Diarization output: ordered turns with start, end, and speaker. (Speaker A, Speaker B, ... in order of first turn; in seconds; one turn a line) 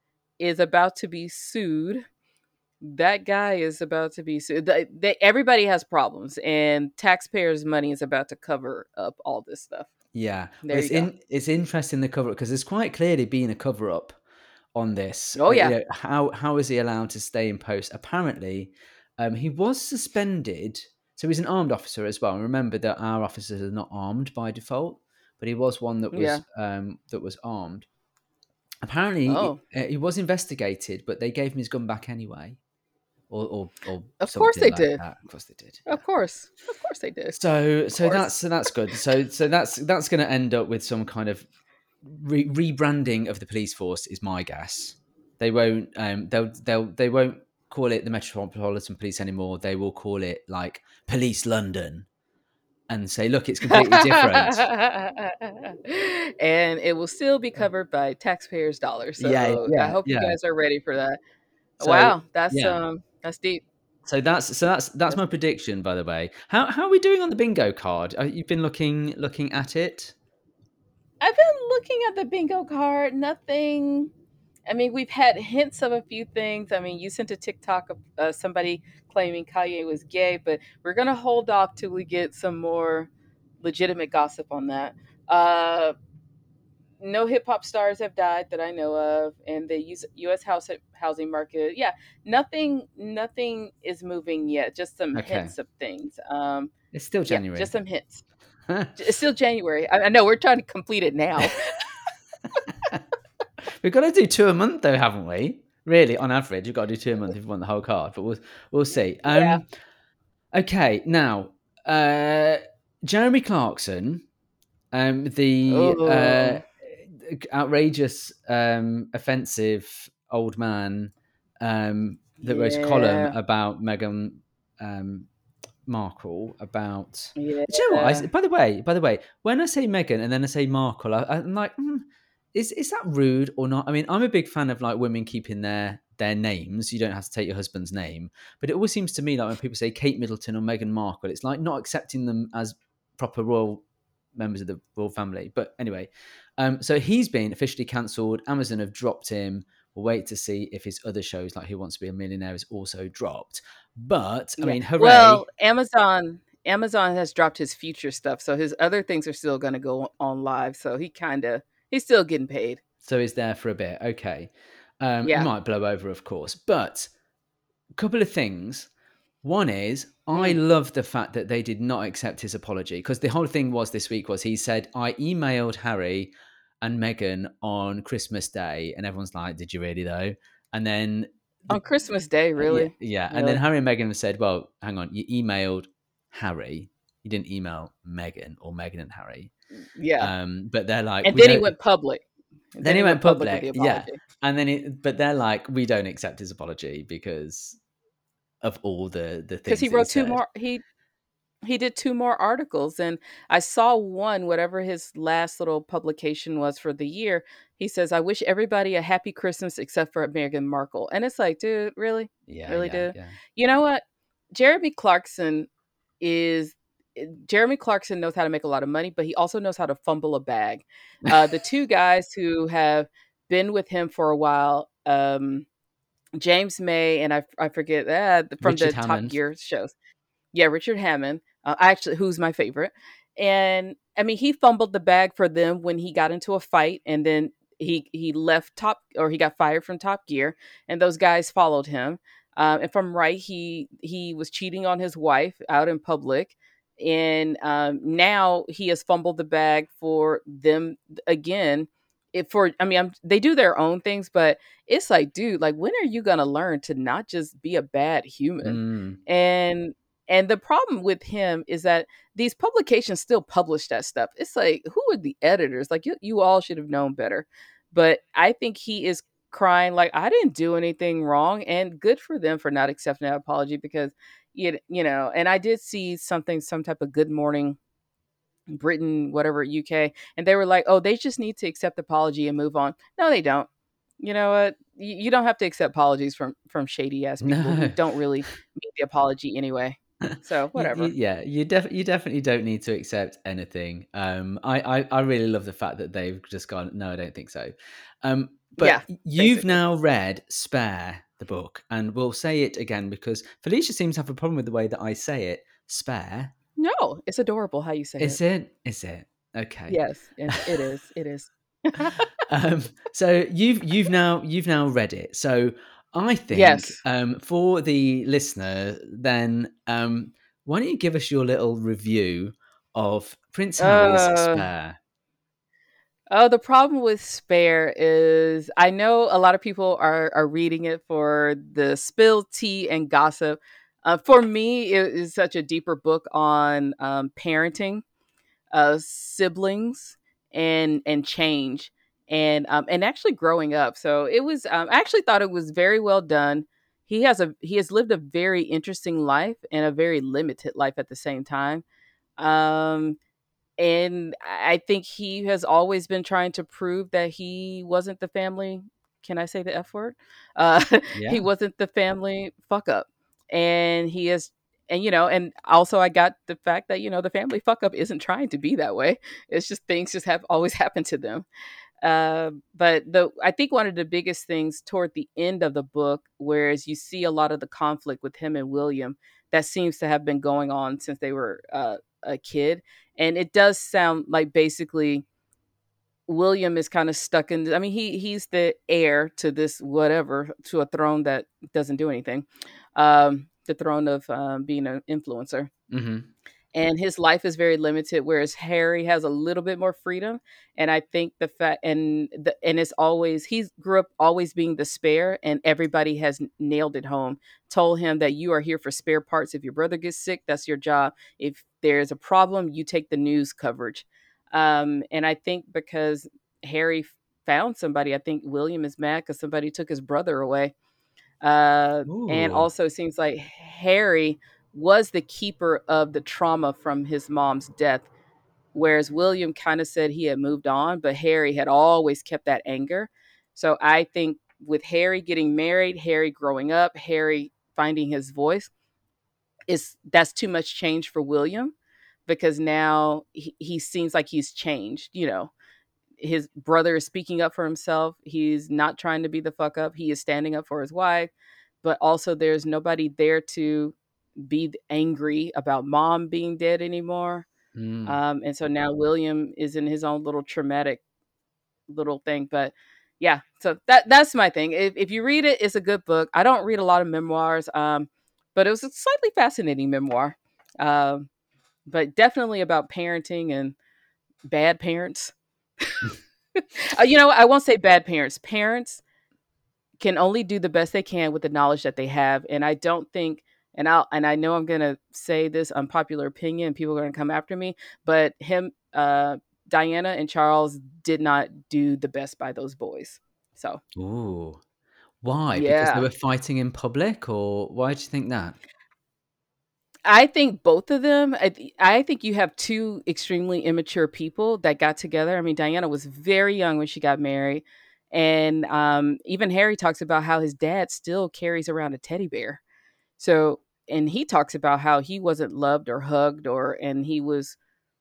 Speaker A: 0.4-2.0
Speaker A: 2.8-9.9
Speaker B: 10.1-14.2
Speaker A: 10.6-11.1
Speaker B: 14.7-27.9
Speaker A: 15.3-15.7
Speaker A: 26.1-26.4
Speaker B: 28.8-32.6
Speaker A: 29.3-29.6
Speaker B: 33.3-36.0
Speaker A: 34.2-35.0
Speaker A: 35.9-37.4
Speaker B: 37.3-41.5
Speaker A: 38.0-38.3
Speaker B: 42.0-52.1
Speaker B: 52.9-54.6
Speaker A: 53.7-61.2
Speaker B: 59.2-60.4
Speaker A: 61.8-63.6
Speaker B: 61.8-62.8
Speaker B: 64.0-70.1
Speaker A: 71.2-74.1
Speaker A: 74.7-83.1
Speaker A: 83.6-85.9
Speaker A: 87.0-96.7
Speaker B: 95.1-95.5
Speaker B: 96.9-97.7
Speaker A: 97.3-98.2
Speaker B: 98.7-99.0
Speaker A: 99.0-101.9
Speaker B: 103.8-109.6
Speaker A: 109.2-109.6
Speaker B: 110.5-114.2
Speaker B: 114.9-125.3
Speaker A: 115.7-116.6
Speaker A: 122.4-123.3
Speaker B: 125.8-143.8
Speaker A: 127.3-128.3
Speaker B: 144.3-155.4
Speaker A: 154.6-162.8
Speaker B: 163.0-167.1
Speaker A: 165.2-165.5
Speaker B: 168.0-168.9
Speaker B: 169.4-181.8
Speaker A: 181.7-183.6
Speaker B: 182.6-189.5
Speaker A: 189.9-190.3
Speaker B: 190.2-191.7
Speaker A: 191.2-192.2
Speaker A: 192.7-194.2
Speaker B: 192.8-197.8
Speaker B: 198.6-200.4
Speaker A: 199.7-200.8
Speaker A: 201.6-214.0
Speaker B: 212.5-213.3
Speaker A: 214.5-215.7
Speaker A: 216.2-225.7
Speaker A: 226.4-229.9
Speaker B: 228.6-229.4
Speaker A: 230.5-277.8
Speaker B: 258.6-259.2
Speaker A: 278.7-283.7
Speaker A: 284.2-291.1
Speaker B: 287.4-288.0
Speaker B: 290.2-306.5
Speaker A: 298.8-299.8
Speaker A: 306.8-308.4
Speaker B: 308.2-310.7
Speaker A: 309.9-312.3
Speaker B: 312.5-324.9
Speaker A: 316.5-317.0
Speaker A: 323.8-324.7
Speaker A: 326.3-338.0
Speaker A: 338.7-351.8
Speaker A: 352.4-353.2
Speaker A: 353.8-371.5
Speaker B: 361.1-361.4
Speaker A: 372.0-385.2
Speaker A: 386.3-395.7
Speaker B: 395.9-396.3
Speaker A: 396.7-420.7
Speaker A: 421.4-428.1
Speaker B: 422.1-422.7
Speaker A: 428.7-438.7
Speaker A: 439.7-441.7
Speaker A: 442.3-445.5
Speaker A: 446.2-451.3
Speaker A: 451.8-457.4
Speaker B: 457.7-458.2
Speaker A: 458.1-461.0
Speaker A: 461.9-471.3
Speaker A: 471.9-473.8
Speaker A: 474.5-479.0
Speaker A: 480.0-493.8
Speaker B: 493.9-494.6
Speaker B: 495.2-498.6
Speaker A: 495.5-496.1
Speaker A: 500.1-512.6
Speaker A: 513.2-517.6